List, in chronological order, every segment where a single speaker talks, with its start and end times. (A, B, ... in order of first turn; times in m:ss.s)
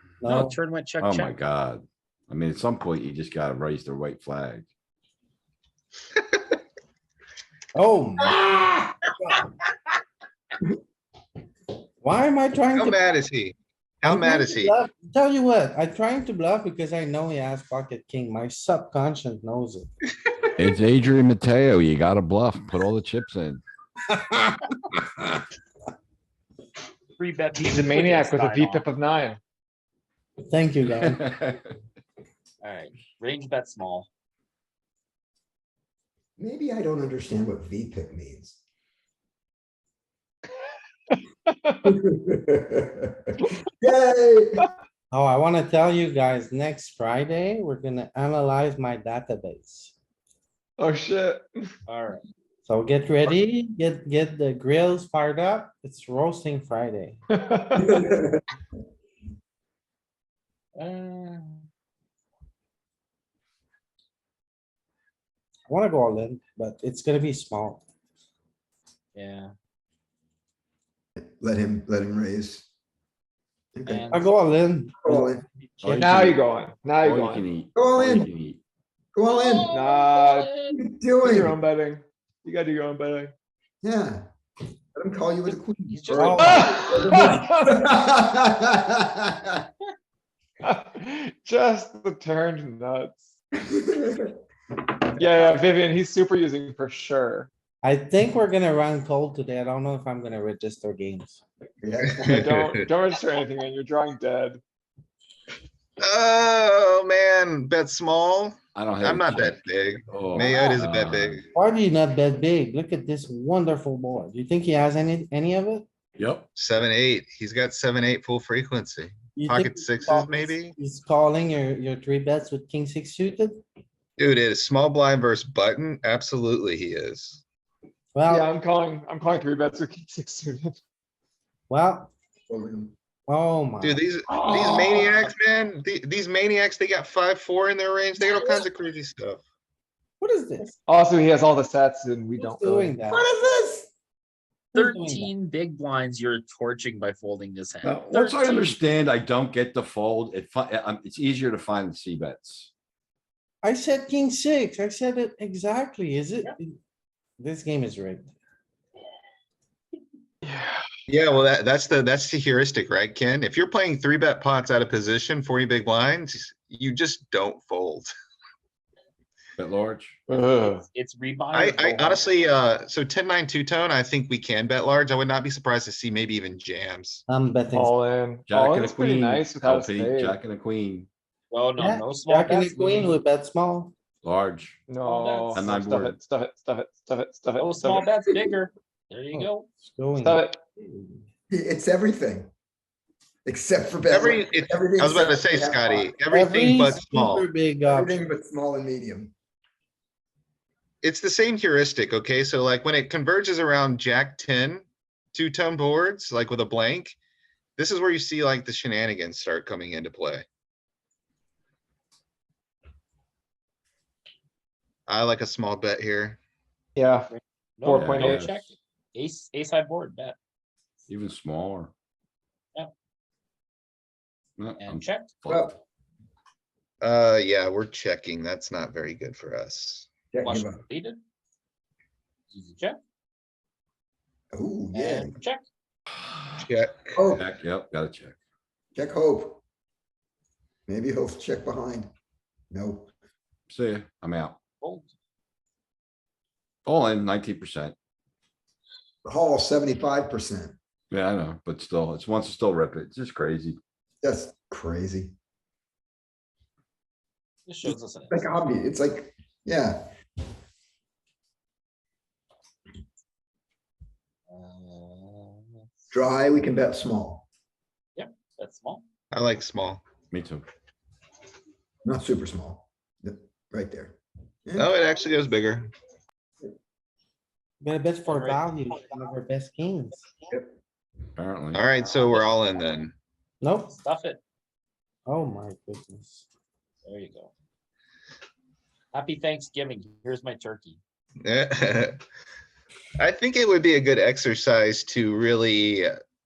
0:00.2-0:00.6 A
0:00.2-0:01.3 B
0:01.0-0:04.7 C
0:07.7-0:08.5 A
0:08.3-0:08.9 D
0:12.0-0:13.0 A
0:12.7-0:14.8 D
0:14.0-0:19.9 A
0:20.6-0:23.6 C
0:24.2-0:24.6 A
0:27.2-0:28.9 B
0:27.6-0:29.4 E
0:30.5-0:31.3 A
0:31.0-0:31.7 C
0:32.6-0:34.1 B
0:36.4-0:38.6 F
0:41.1-0:41.8 E
0:41.8-0:44.7 F
0:45.1-0:49.9 A
0:50.8-0:51.7 E
0:51.9-0:52.2 B
0:52.6-0:57.2 A
0:57.3-0:58.2 E
0:57.9-0:58.3 F
1:00.7-1:01.6 B
1:05.7-1:07.8 A
1:09.1-1:09.5 B
1:11.2-1:12.7 F
1:13.8-1:14.0 F
1:13.8-1:14.3 B
1:14.1-1:16.2 A
1:15.0-1:15.4 F
1:15.8-1:16.4 C
1:16.0-1:17.4 E
1:17.0-1:18.6 C
1:17.7-1:18.3 F
1:19.1-1:19.7 F
1:19.3-1:20.8 B
1:19.7-1:20.6 E
1:20.7-1:21.6 F
1:21.2-1:23.3 E
1:23.8-1:24.3 F
1:24.9-1:29.6 F
1:25.4-1:27.0 B
1:26.1-1:26.6 A
1:26.4-1:27.7 E
1:30.6-1:33.3 E
1:33.6-1:34.4 F
1:35.2-1:37.5 E
1:37.8-1:41.4 A
1:41.8-1:42.4 F
1:42.1-1:42.9 D
1:42.2-1:44.6 E
1:46.0-1:51.4 D
1:48.7-1:51.4 C
1:51.5-1:55.8 A
1:56.2-1:56.5 C
1:56.6-2:00.7 D
1:59.3-2:03.6 A
2:04.2-2:07.4 D
2:08.1-2:08.5 A
2:08.3-2:10.8 E
2:11.7-2:12.1 A
2:12.5-2:12.9 F
2:13.3-2:14.1 A
2:13.8-2:19.4 D
2:14.3-2:15.1 F
2:20.2-2:20.8 A
2:20.9-2:23.0 E
2:22.4-2:23.3 A
2:23.1-2:23.9 F
2:24.7-2:25.3 A
2:24.7-2:28.7 B
2:27.8-2:32.7 C
2:33.6-2:36.7 A
2:37.4-2:38.3 A
2:40.4-2:40.8 E
2:41.1-2:48.1 D
2:49.6-2:50.2 C
2:50.3-2:50.8 E
2:50.9-2:52.4 B
2:51.5-2:57.2 D
2:57.3-2:57.9 A
2:57.7-3:00.4 E
2:58.5-3:01.1 C
3:01.5-3:03.2 B
3:01.8-3:03.9 A
3:04.2-3:04.8 C
3:04.9-3:08.1 E
3:05.0-3:05.7 B
3:05.5-3:06.2 C
3:07.6-3:09.7 B
3:09.3-3:11.2 A
3:10.2-3:10.6 E
3:11.5-3:12.5 F
3:13.4-3:16.3 F
3:14.1-3:17.5 D
3:16.2-3:18.2 A
3:17.8-3:19.3 F
3:21.0-3:27.2 D
3:27.8-3:30.4 D
3:35.1-3:36.4 D
3:37.0-3:37.3 E
3:37.3-3:40.4 B
3:37.8-3:38.5 E
3:37.9-3:38.6 C
3:41.1-3:41.9 C
3:44.6-3:45.8 C
3:44.8-3:45.3 B
3:45.5-3:45.8 F
3:47.0-3:50.1 D
3:50.3-3:50.8 F
3:50.4-3:51.2 B
3:52.5-3:53.0 B
3:54.5-3:55.4 F
3:54.9-3:55.6 B
3:56.6-3:57.1 D
3:57.2-3:57.4 F
3:57.3-3:58.4 C
3:58.9-3:59.6 F
4:00.9-4:02.1 F
4:02.7-4:03.1 F
4:03.7-4:04.6 C
4:04.8-4:05.1 B
4:06.8-4:07.9 C
4:09.2-4:10.8 F
4:11.1-4:13.8 C
4:14.2-4:15.3 F
4:17.6-4:18.5 B
4:17.8-4:20.1 F
4:24.5-4:25.8 B
4:26.1-4:27.4 F
4:28.1-4:29.0 B
4:29.3-4:30.0 D
4:30.3-4:30.6 C
4:32.0-4:34.9 F
4:34.8-4:35.9 D
4:37.8-4:40.2 A
4:38.3-4:38.6 B
4:41.4-4:41.8 C
4:41.7-4:43.1 D
4:42.2-4:42.4 B
4:43.6-4:44.0 A
4:43.9-4:44.4 B
4:45.3-4:46.4 A
4:47.0-4:47.5 B
4:49.1-4:51.0 B
4:51.4-4:52.2 D
4:53.2-4:56.1 D